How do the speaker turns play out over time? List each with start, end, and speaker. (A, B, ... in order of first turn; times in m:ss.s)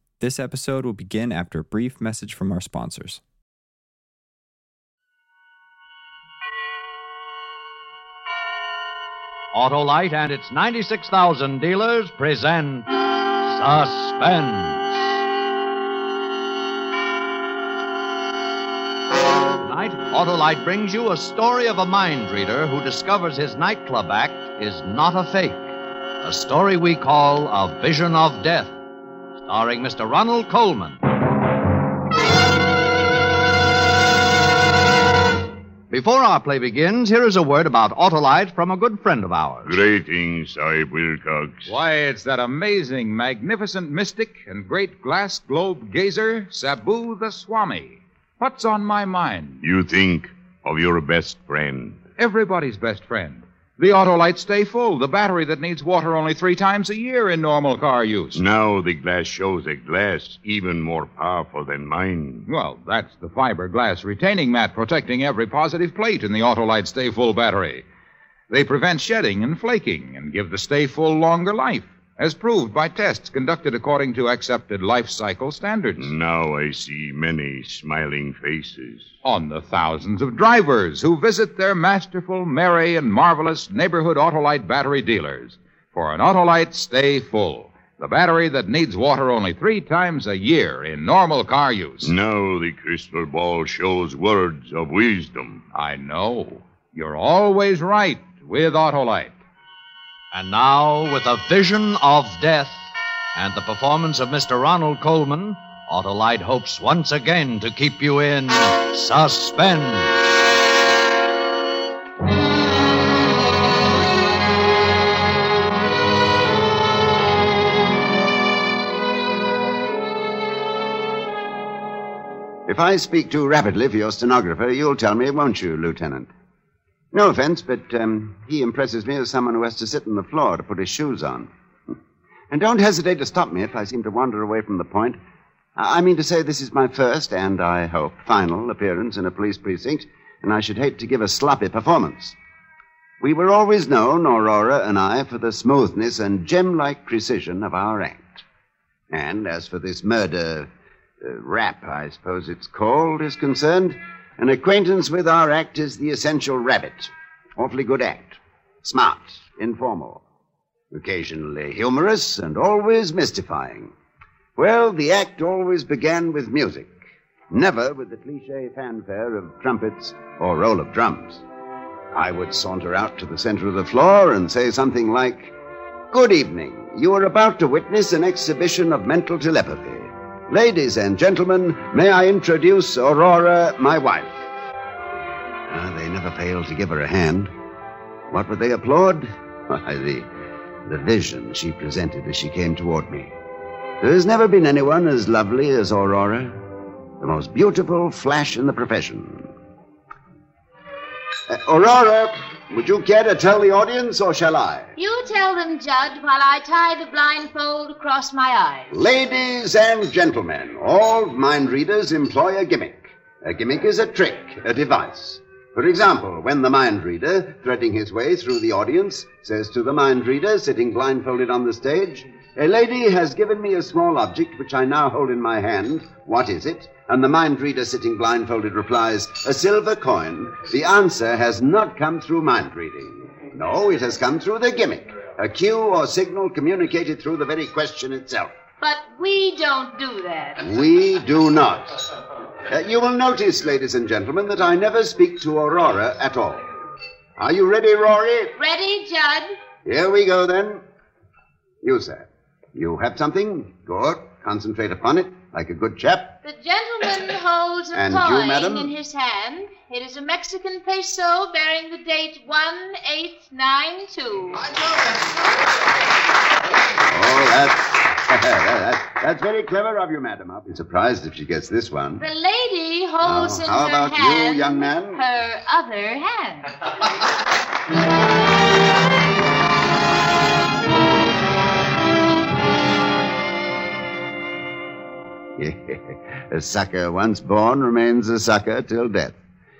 0:00.2-0:03.2 A
0:09.5-0:12.9 B
0:13.4-0:15.0 B
0:19.6-0:25.6 B
0:26.2-0:28.7 B
0:29.4-0:31.0 B
0:35.9-0:39.8 B
0:39.6-0:41.7 C
0:41.7-0:49.6 D
0:49.6-0:52.0 C
0:52.2-0:58.4 D
0:58.3-1:02.5 C
1:02.5-1:07.8 D
1:08.5-1:16.1 D
1:16.0-1:19.1 C
1:19.2-1:32.1 D
1:32.0-1:35.6 C
1:35.7-1:39.4 D
1:40.3-1:50.1 B
2:02.7-2:06.3 E
2:07.1-2:11.5 E
2:12.5-2:15.2 E
2:15.8-2:22.4 E
2:23.2-2:28.4 E
2:29.1-2:30.7 E
2:31.2-2:40.2 E
2:40.9-2:43.9 E
2:44.6-2:47.0 E
2:47.5-2:51.4 E
2:52.1-2:55.5 E
2:56.1-3:04.4 E
3:05.7-3:07.5 E
3:08.3-3:10.3 E
3:10.8-3:13.3 E
3:14.0-3:16.6 E
3:17.2-3:19.5 E
3:21.5-3:24.9 E
3:25.0-3:29.0 F
3:28.9-3:58.6 E
3:58.8-4:00.7 F
4:00.6-4:02.0 E
4:02.6-4:06.7 E
4:07.4-4:08.6 E
4:08.5-4:09.5 F
4:09.8-4:10.8 E
4:11.8-4:16.4 E
4:16.4-4:24.6 F
4:17.9-4:18.9 E
4:26.9-4:32.2 E
4:32.2-4:36.7 F
4:33.2-4:35.2 E
4:45.6-4:49.4 E